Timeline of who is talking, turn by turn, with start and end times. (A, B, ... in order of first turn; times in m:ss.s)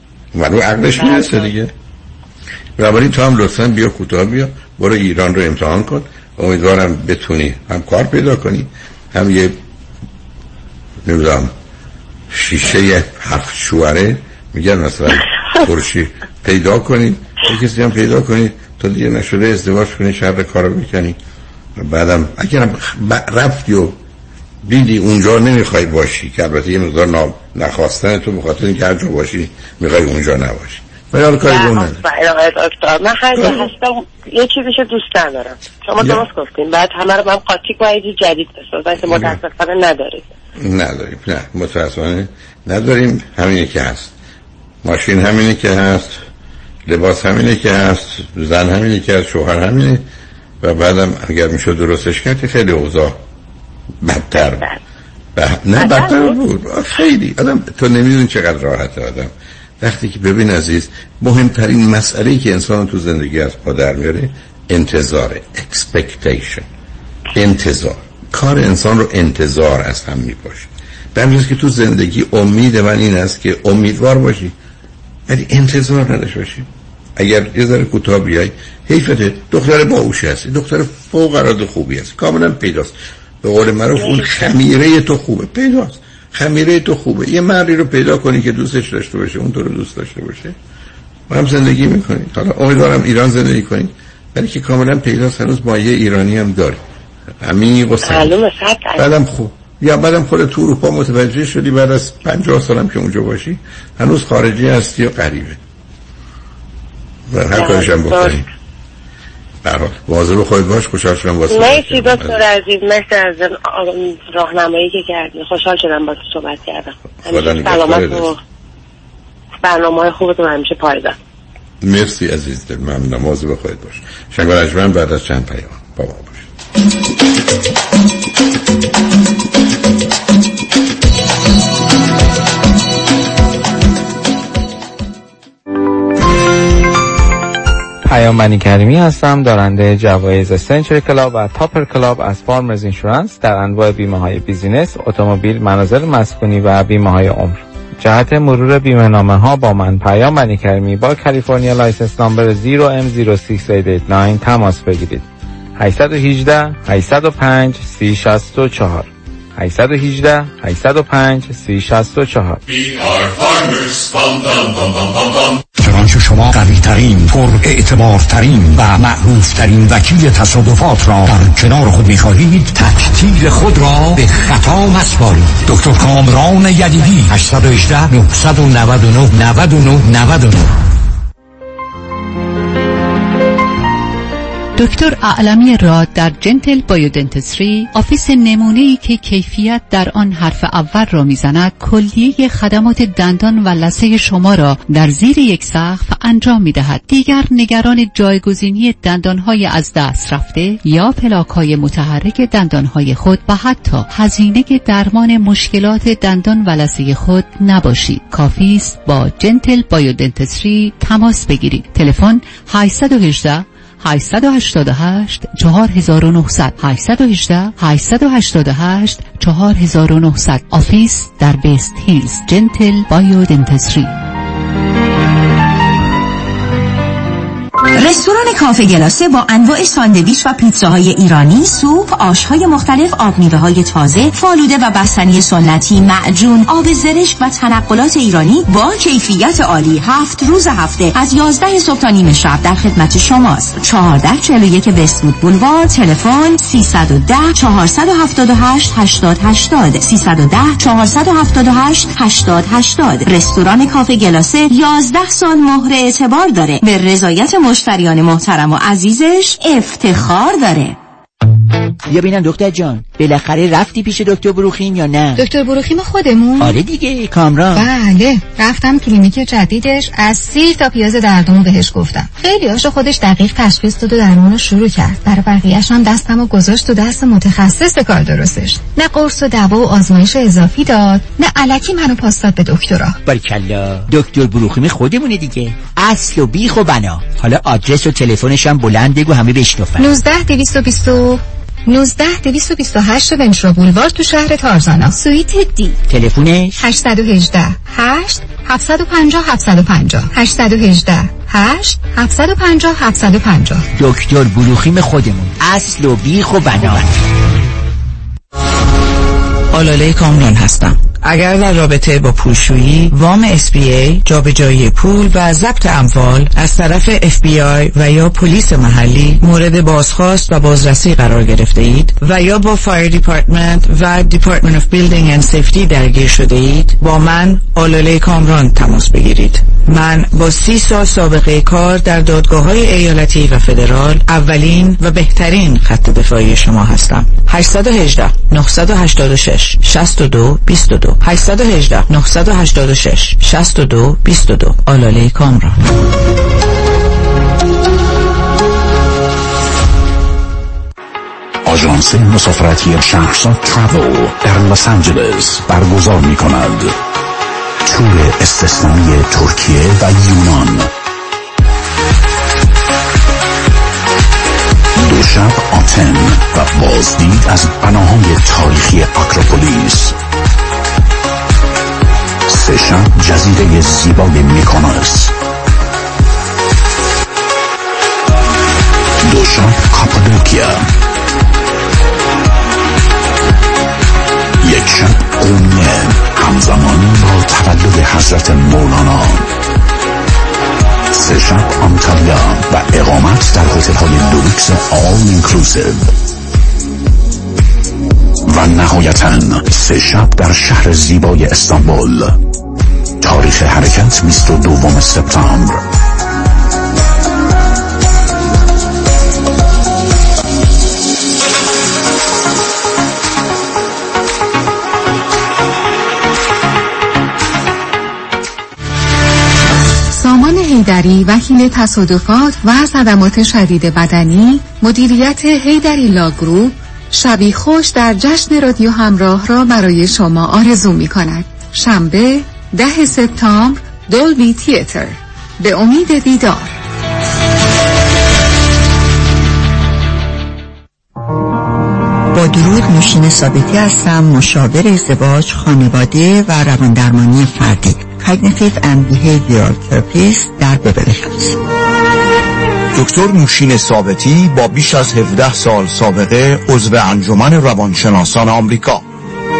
0:00.3-0:01.7 A
0:00.9-0:01.5 B
0:02.8-0:09.6 A
0:11.0-0:11.5 A
0:12.3-0:21.2 A
0:21.8-0:24.0 A
0:24.6-0:32.0 A
0:31.4-0:40.3 B
0:33.3-0:33.7 A
0:36.0-0:36.2 A
0:39.1-0:39.4 A
0:40.6-0:44.1 A
0:44.8-0:46.2 A
0:46.8-0:50.0 A
0:50.6-0:53.2 A
0:54.0-0:54.6 A
0:54.3-0:54.8 B
0:55.4-1:06.7 A
0:55.8-0:56.4 B
1:07.3-1:14.5 A
1:15.3-1:30.6 A
1:24.0-1:24.5 B
1:31.3-1:36.8 A
1:37.4-1:38.4 A
1:38.0-1:39.1 B
1:39.0-1:45.6 A
1:47.3-1:48.4 A
1:47.5-1:48.4 B
1:49.6-1:52.4 A
1:51.5-1:58.4 B
1:57.2-1:58.3 A
1:59.6-2:01.2 B
2:01.8-2:06.5 A
2:18.0-2:35.2 C
2:35.8-2:42.6 C
3:04.8-3:44.1 D
3:47.9-4:21.0 E
4:22.1-4:25.4 F
4:25.3-4:26.8 G
4:26.6-4:27.9 F
4:27.7-4:43.2 G
4:43.2-4:50.1 F
4:50.0-4:56.0 G
4:56.1-4:56.7 F
4:56.8-5:03.8 G
5:04.0-5:07.1 F
5:09.7-5:45.9 H
5:51.6-5:57.0 I
5:57.8-6:00.9 I
6:05.0-6:10.2 I
6:12.5-6:15.3 I
6:19.2-6:20.9 I
6:24.6-6:29.5 I
6:31.1-6:36.1 I
6:38.4-6:42.4 I
6:43.2-6:45.8 I
7:00.1-7:16.8 G
7:22.3-7:31.6 J
7:32.9-7:39.0 K